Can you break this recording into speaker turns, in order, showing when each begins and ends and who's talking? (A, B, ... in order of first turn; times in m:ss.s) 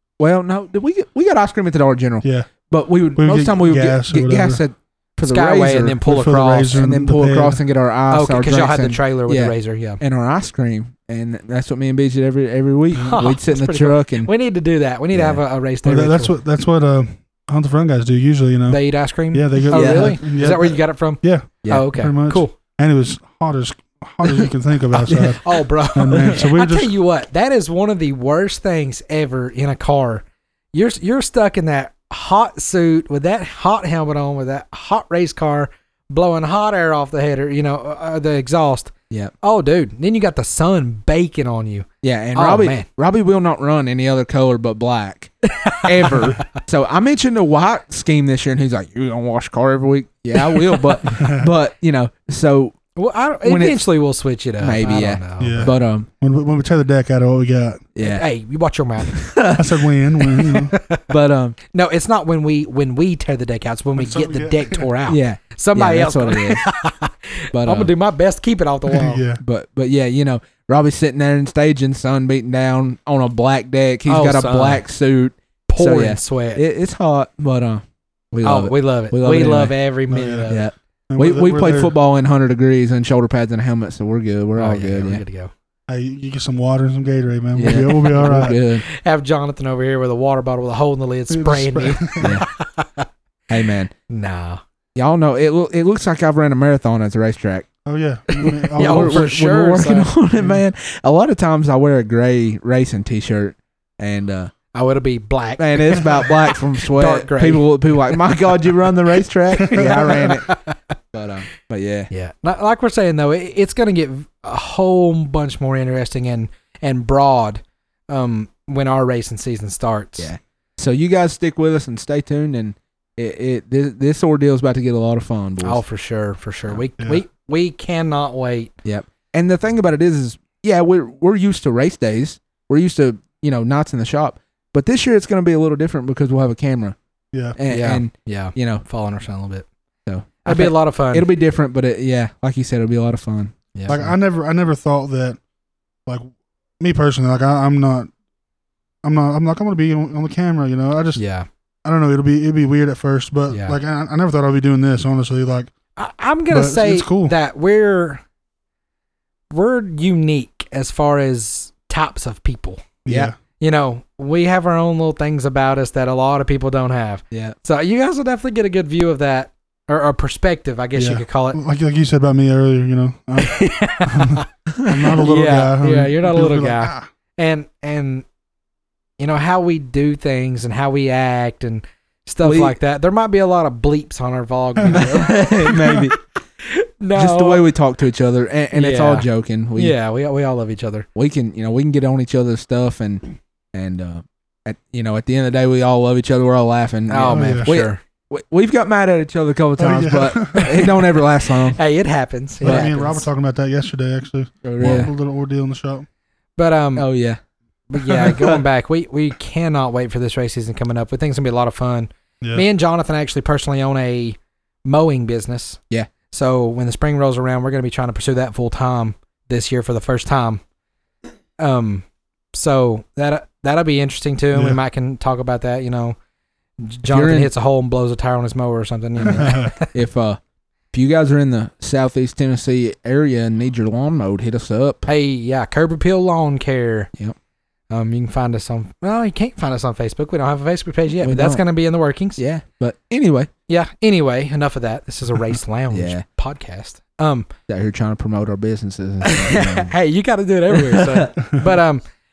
0:00.2-0:06.0 A
0:02.2-0:02.5 B
0:03.1-0:04.6 B
0:05.2-0:06.8 C
0:06.0-0:07.6 B
0:06.8-0:14.3 A
0:08.1-0:10.0 C
0:12.9-0:16.3 C
0:15.1-0:15.4 A
0:15.8-0:26.9 B
0:18.7-0:22.5 C
0:19.7-0:20.2 A
0:21.6-0:21.9 A
0:25.0-0:42.8 C
0:25.1-0:25.4 A
0:42.0-0:52.8 A
0:45.5-0:46.4 C
0:50.4-0:50.9 C
0:51.1-0:51.5 B
0:53.0-0:55.7 C
0:53.4-0:53.8 A
0:54.6-0:56.1 A
0:55.4-0:57.8 B
0:57.9-0:58.2 A
0:58.0-0:59.2 C
0:59.1-0:59.8 A
0:59.6-1:00.8 B
1:00.4-1:01.1 C
1:01.1-1:01.6 A
1:01.7-1:09.2 C
1:04.0-1:04.9 B
1:05.1-1:06.6 A
1:07.5-1:07.9 A
1:08.9-1:09.4 B
1:09.4-1:19.7 A
1:14.1-1:14.8 C
1:15.7-1:16.6 C
1:18.4-1:20.7 C
1:20.1-1:20.5 B
1:20.5-1:25.2 A
1:21.1-1:21.9 B
1:24.6-1:25.5 C
1:25.9-1:28.6 B
1:27.6-1:28.8 A
1:27.7-1:33.6 C
1:31.3-1:32.4 B
1:32.2-1:32.5 A
1:33.5-1:33.9 A
1:34.1-1:34.6 C
1:34.9-1:37.7 A
1:37.8-1:39.2 B
1:38.4-1:40.1 C
1:38.8-1:44.5 A
1:44.7-1:47.6 C
1:45.6-1:50.6 A
1:49.7-1:50.7 C
1:51.1-1:52.1 A
1:52.1-2:00.3 C
2:00.2-2:05.8 A
2:05.6-2:08.7 C
2:08.8-2:17.0 A
2:17.6-2:18.8 A
2:17.7-2:19.6 C
2:20.0-2:23.5 A
2:20.4-2:21.3 C
2:23.7-2:24.1 C
2:23.9-2:25.4 B
2:26.8-2:28.1 B
2:29.0-2:31.2 B
2:31.2-2:31.5 C
2:31.8-2:35.7 B
2:33.5-2:33.8 C
2:36.0-2:38.2 C
2:36.5-2:37.3 B
2:39.5-2:42.8 C
2:43.0-2:43.3 B
2:43.1-2:43.3 A
2:43.6-2:51.6 C
2:47.3-2:47.6 A
2:51.0-2:57.1 B
2:53.4-2:58.2 C
2:59.2-3:06.0 C
3:02.4-3:02.7 A
3:04.8-3:05.1 B
3:04.9-3:06.2 A
3:06.6-3:07.6 C
3:07.1-3:09.9 A
3:08.7-3:11.0 C
3:11.2-3:21.8 A
3:17.1-3:18.0 C
3:17.2-3:17.7 B
3:19.8-3:21.0 B
3:20.6-3:20.9 C
3:21.7-3:23.2 C
3:22.6-3:26.0 B
3:22.6-3:22.9 A
3:24.6-3:25.1 A
3:24.8-3:25.1 C
3:26.6-3:27.0 C
3:27.0-3:27.4 A
3:27.9-3:35.8 C
3:27.9-3:28.6 A
3:36.3-3:40.6 C
3:41.6-3:46.2 C
3:46.8-3:49.9 C
3:47.1-3:47.5 A
3:49.2-3:49.7 B
3:49.9-3:50.4 A
3:50.9-3:55.1 A
3:55.0-3:57.1 C
3:57.9-4:02.4 C
4:01.2-4:01.6 A
4:02.4-4:03.5 A
4:03.7-4:07.5 C
4:05.9-4:06.2 A
4:07.7-4:09.9 A
4:09.2-4:12.0 C
4:10.7-4:11.3 A